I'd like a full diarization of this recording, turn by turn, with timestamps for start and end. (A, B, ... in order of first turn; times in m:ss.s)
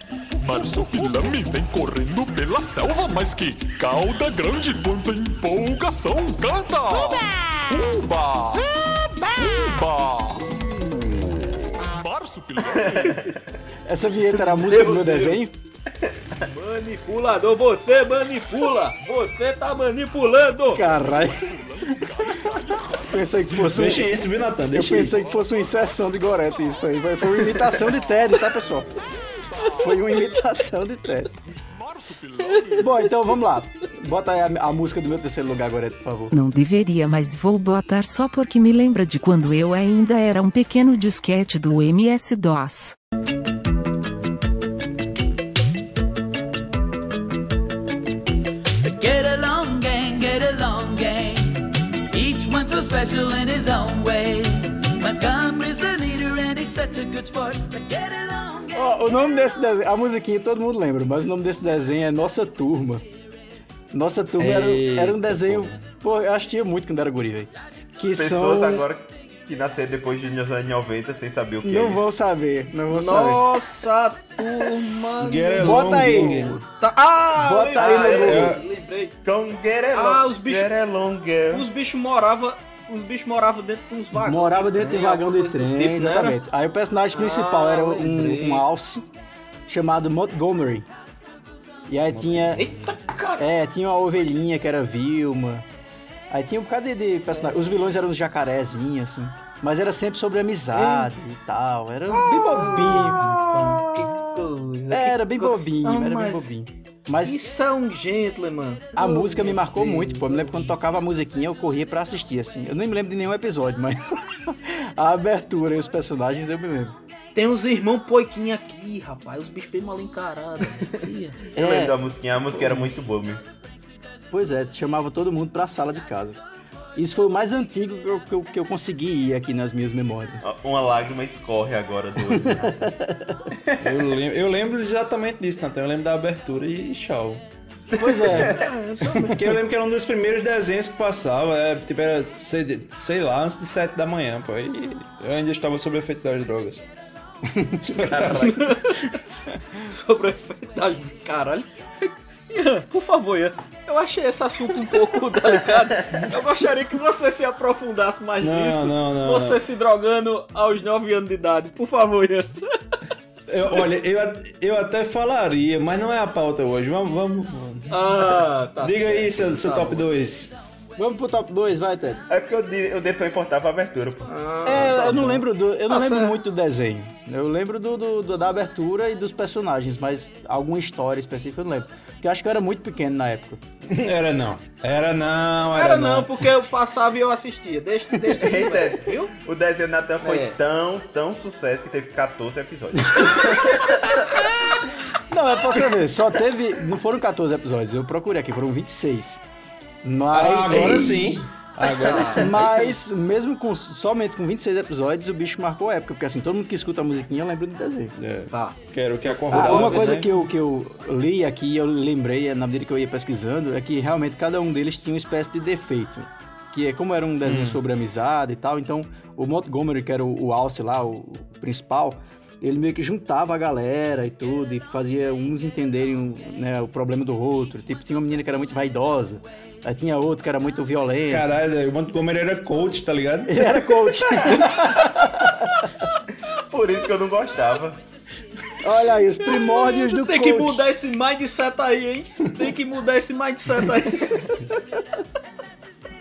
0:00.4-0:08.7 A
0:09.4-0:10.6 A
0:11.8-0:13.2 A
0:12.7-0:13.3 B
0:13.9-0:15.5 C
0:14.4-0:15.4 D
0:16.4-0:20.9 D
0:20.7-0:21.5 C
0:21.0-0:23.3 A
0:23.1-0:24.2 C
0:23.6-0:25.2 E
0:24.7-0:28.9 C
0:25.1-0:25.8 A
0:29.6-0:29.9 A
0:29.8-0:31.3 C
0:31.7-0:33.1 A
0:32.5-0:32.8 D
0:32.8-0:36.3 C
0:36.3-0:43.0 F
0:48.8-0:58.9 G
0:58.7-1:03.0 C
1:03.9-1:08.9 C
1:04.4-1:05.9 E
1:08.2-1:12.1 B
1:11.6-1:13.4 C
1:12.9-1:19.2 D
1:15.2-1:16.6 E
1:15.6-1:16.6 C
1:17.4-1:18.6 C
1:17.8-1:18.4 B
1:18.2-1:18.6 E
1:19.2-1:21.7 B
1:19.9-1:20.7 D
1:21.5-1:26.4 D
1:24.1-1:29.1 C
1:27.1-1:28.7 D
1:29.7-1:30.9 C
1:31.9-1:32.6 C
1:32.1-1:32.9 E
1:32.5-1:33.4 D
1:33.4-1:35.7 C
1:36.3-1:43.5 C
1:37.3-1:37.6 D
1:40.7-1:41.1 D
1:42.1-1:46.5 D
1:44.9-1:47.4 C
1:47.2-1:50.8 D
1:49.0-1:57.0 C
1:57.4-2:01.5 D
2:01.6-2:03.4 B
2:01.6-2:01.9 C
2:04.3-2:06.4 C
2:07.0-2:10.4 C
2:10.4-2:12.8 B
2:12.3-2:13.3 C
2:13.8-2:17.4 E
2:18.0-2:18.5 B
2:18.0-2:18.6 C
2:18.4-2:19.5 D
2:19.2-2:26.8 E
2:27.5-2:27.8 C
2:27.8-2:28.5 E
2:28.0-2:28.6 B
2:28.4-2:29.1 D
2:29.8-2:42.6 D
2:38.4-2:39.6 E
2:43.5-2:50.6 E
2:47.9-2:50.1 D
2:51.0-2:52.2 C
2:52.3-2:54.3 B
2:54.2-2:56.4 D
2:54.6-3:03.6 C
3:03.9-3:06.5 E
3:05.7-3:09.3 D
3:08.3-3:14.3 B
3:10.2-3:10.6 D
3:15.3-3:19.4 C
3:20.0-3:21.4 C
3:20.3-3:22.8 E
3:21.9-3:23.0 D
3:22.3-3:28.1 C
3:28.2-3:30.3 E
3:28.5-3:30.2 D
3:29.5-3:51.5 C
3:37.4-3:37.8 E
3:51.3-3:53.8 E
3:53.5-3:55.6 C
3:56.7-3:58.0 B
3:58.8-4:00.8 C
3:59.4-4:04.7 D